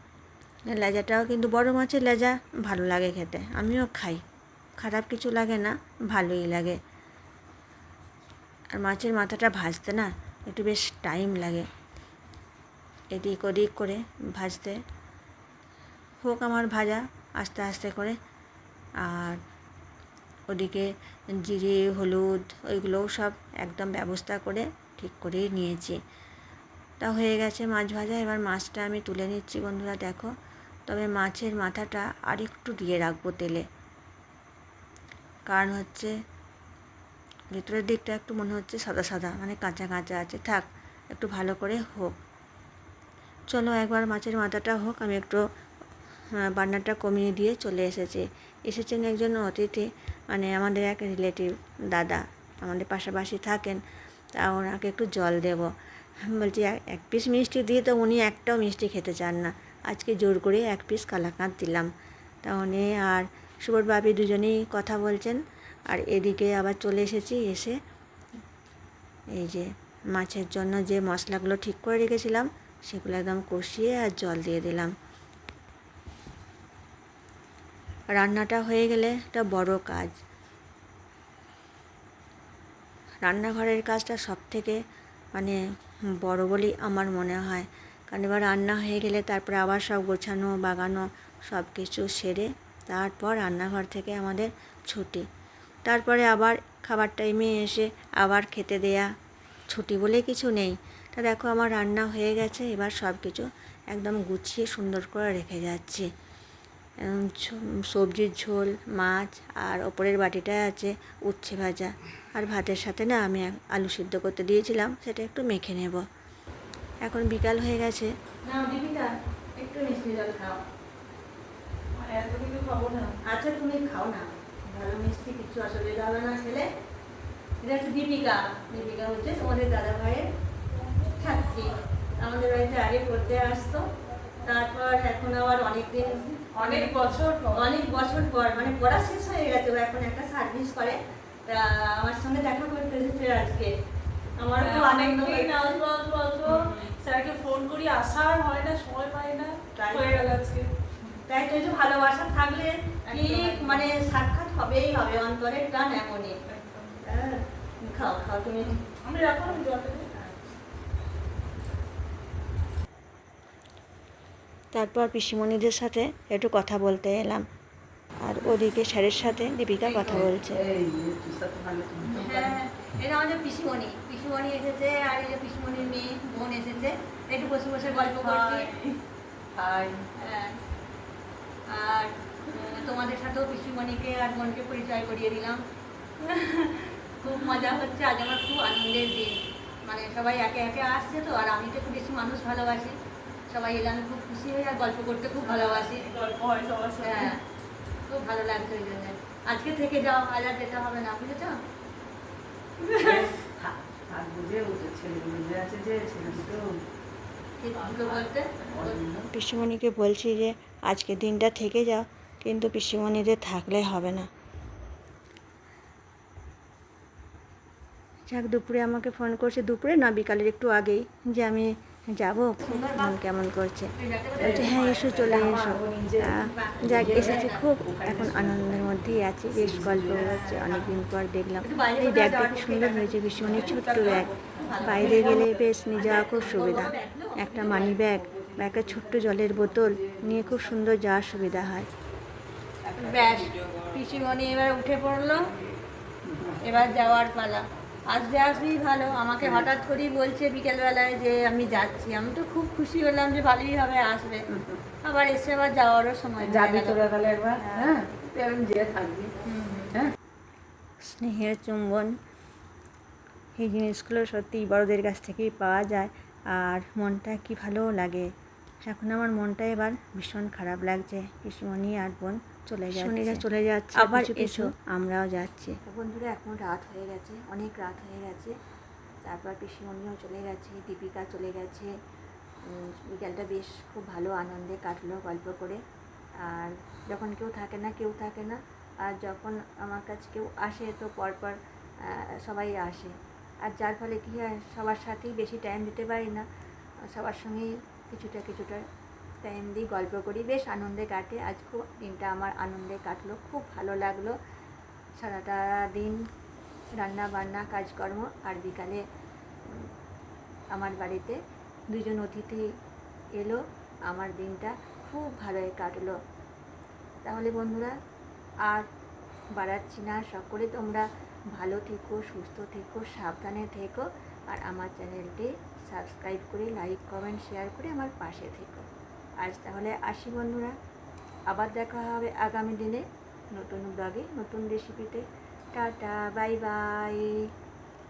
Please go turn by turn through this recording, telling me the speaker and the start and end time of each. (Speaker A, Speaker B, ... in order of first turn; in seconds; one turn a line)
Speaker A: 0.7-4.2
Speaker A: 4.8-6.8
Speaker A: 8.7-11.7
Speaker A: 13.1-14.8
Speaker A: 16.2-18.2
Speaker A: 19.0-19.4
Speaker A: 20.5-26.0
Speaker A: 27.0-30.3
Speaker A: 30.9-33.7
Speaker A: 35.5-36.2
Speaker A: 37.5-42.2
Speaker A: 43.5-45.4
Speaker A: 46.4-53.8
Speaker A: 54.4-55.7
Speaker A: 56.3-61.9
Speaker A: 62.4-67.8
Speaker A: 69.4-75.0
Speaker A: 78.1-80.2
Speaker A: 83.2-84.8
Speaker A: 85.3-85.6
Speaker A: 86.1-95.3
Speaker A: 95.8-99.1
Speaker A: 99.7-106.1
Speaker A: 107.0-116.0
Speaker A: 117.0-118.1
Speaker B: 118.5-120.6
Speaker C: 121.9-123.2
Speaker B: 123.2-126.7
Speaker B: 127.6-130.3
Speaker B: 131.2-133.9
Speaker B: 134.4-137.0
Speaker C: 136.6-137.7
Speaker B: 137.5-143.7
Speaker B: 144.4-145.9
Speaker C: 144.6-150.7
Speaker B: 146.4-146.7
Speaker B: 149.8-150.2
Speaker B: 151.3-158.9
Speaker C: 153.1-153.9
Speaker C: 158.7-160.1
Speaker B: 159.4-160.4
Speaker A: 164.7-167.5
Speaker A: 168.2-170.6
Speaker B: 169.9-170.2
Speaker D: 170.1-172.6
Speaker B: 172.1-178.8
Speaker C: 178.2-178.8
Speaker D: 179.5-180.1
Speaker B: 180.2-180.6
Speaker B: 181.7-185.6
Speaker B: 186.2-193.0
Speaker C: 187.2-187.7
Speaker B: 193.5-196.1
Speaker C: 195.4-197.4
Speaker B: 197.0-197.4
Speaker B: 198.1-201.6
Speaker D: 203.0-206.8
Speaker B: 207.6-209.0
Speaker D: 207.9-209.3
Speaker A: 209.3-214.3
Speaker A: 218.3-223.9
Speaker B: 222.6-223.1
Speaker B: 224.0-225.4
Speaker D: 224.4-230.5
Speaker A: 224.5-241.9
Speaker B: 226.5-227.6
Speaker B: 230.2-230.9
Speaker B: 231.6-238.0
Speaker D: 233.4-235.8
Speaker D: 236.5-236.9
Speaker D: 237.7-240.7
Speaker D: 242.8-243.7
Speaker B: 243.0-245.5
Speaker D: 246.3-246.8
Speaker B: 246.6-254.4
Speaker D: 249.4-249.7
Speaker B: 255.0-257.0
Speaker D: 256.4-259.3
Speaker B: 259.5-259.9
Speaker A: 261.0-262.1
Speaker A: 263.6-268.3
Speaker A: 268.8-278.6
Speaker B: 272.8-274.7
Speaker A: 279.2-281.9
Speaker A: 282.6-285.8
Speaker A: 286.4-291.6
Speaker A: 292.4-293.1
Speaker A: 293.7-296.4
Speaker A: 297.2-298.8
Speaker A: 299.5-301.0
Speaker B: 300.5-304.3
Speaker A: 305.2-306.1
Speaker A: 307.0-309.0
Speaker A: 310.9-311.3
Speaker A: 312.0-312.6
Speaker A: 313.4-316.2
Speaker A: 317.2-317.9
Speaker A: 319.5-328.9
Speaker A: 329.4-330.8
Speaker A: 331.5-337.4